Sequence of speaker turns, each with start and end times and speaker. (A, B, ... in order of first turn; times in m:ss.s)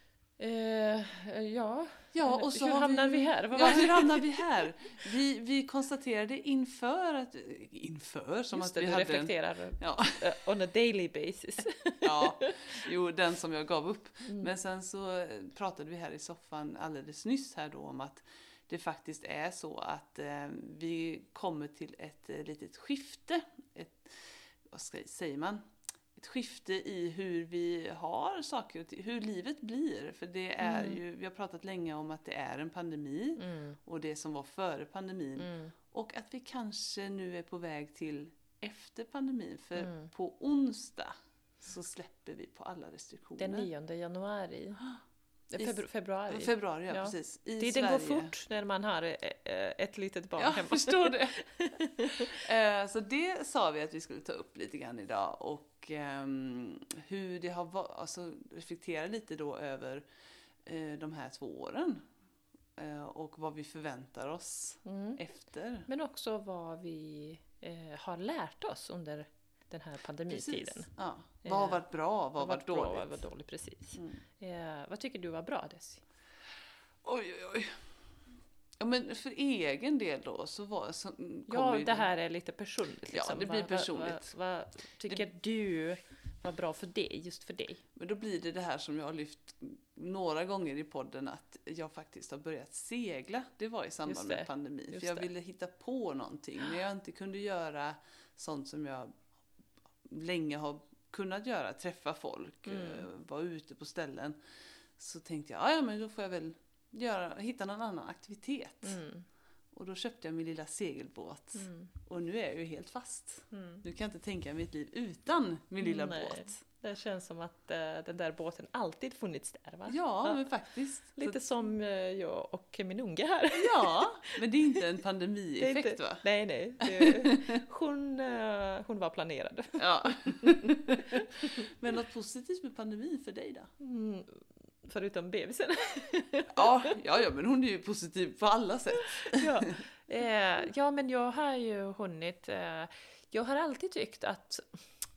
0:00.4-0:04.4 A
0:02.1-0:10.3 B
0:08.5-0:12.8 A
0:12.0-0:25.6 B
0:14.3-0:14.5 A
0:26.2-0:43.7 B
0:30.6-0:31.0 A
0:33.4-0:33.8 A
0:35.4-0:35.7 A
0:39.8-0:40.1 A
0:43.4-0:44.8 A
0:45.5-0:52.4 A
0:45.6-0:48.4 B
0:50.4-0:51.4 B
0:52.2-1:00.0 B
1:00.6-1:02.0 B
1:02.8-1:05.9 B
1:04.8-1:05.2 A
1:05.9-1:10.9 A
1:10.3-1:13.2 B
1:11.4-1:11.8 A
1:12.4-1:16.0 A
1:17.0-1:17.8 B
1:18.8-1:22.1 B
1:21.5-1:27.8 A
1:23.1-1:24.2 B
1:28.0-1:39.1 B
1:34.0-1:35.3 A
1:40.1-1:44.4 B
1:42.7-1:43.1 A
1:45.0-1:49.0 B
1:48.8-1:49.3 A
1:49.7-1:56.6 B
1:51.6-1:51.9 A
1:53.5-1:53.8 A
1:55.8-2:00.5 A
1:59.9-2:01.4 B
2:01.2-2:04.8 A
2:03.5-2:06.3 B
2:05.6-2:11.6 A
2:06.8-2:07.6 B
2:09.8-2:11.1 B
2:11.6-2:13.7 B
2:13.8-2:16.9 A
2:16.5-2:19.7 B
2:19.0-2:24.8 A